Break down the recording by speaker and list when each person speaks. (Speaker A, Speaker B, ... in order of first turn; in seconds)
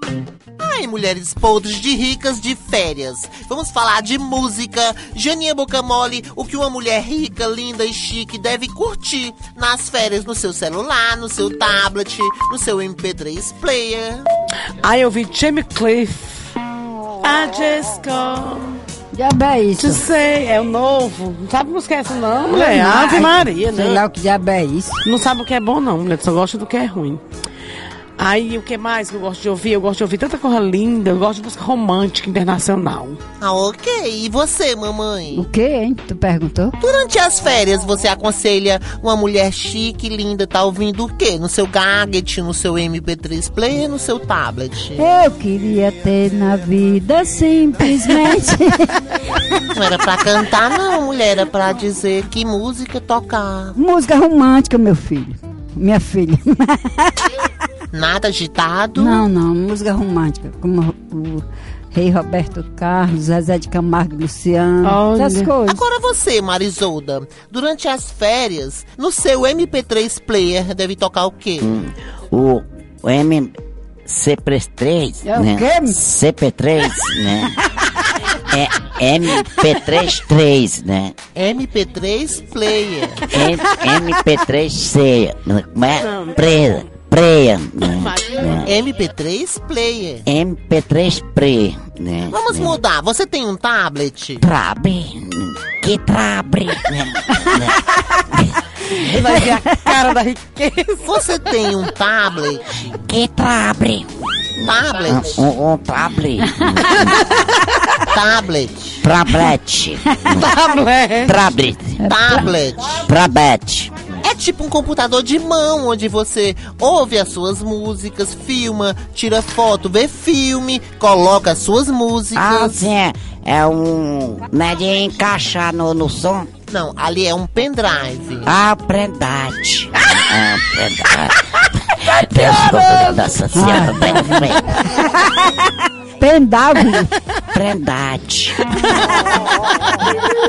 Speaker A: 0.6-14.3, 33.4-35.5, 36.8-45.0, 49.7-53.8, 57.9-59.2, 65.6-71.7, 81.3-83.3, 88.6-90.2, 92.3-94.4, 101.0-103.0, 104.6-105.4, 108.1-109.0, 112.1-113.1, 114.2-122.7, 126.7-128.6
Speaker B: 14.8-16.5, 17.2-18.8, 19.8-24.0, 25.0-27.2, 28.2-33.2, 64.8-65.5, 86.0-86.8, 87.8-88.5, 98.9-101.2, 110.3-111.4, 138.8-139.2
Speaker C: 19.1-20.0, 22.5-25.0, 35.3-36.8, 45.0-49.0, 53.8-57.3, 59.0-65.8, 75.2-76.0, 112.0-112.5, 133.5-135.6, 136.2-137.1
Speaker D: 71.6-73.5, 74.0-77.6, 78.3-81.2, 83.3-88.7, 90.2-92.8, 94.4-98.4, 103.0-107.2, 109.0-110.5, 111.2-112.0, 113.0-114.0, 122.3-126.5, 128.4-134.7, 137.5-138.6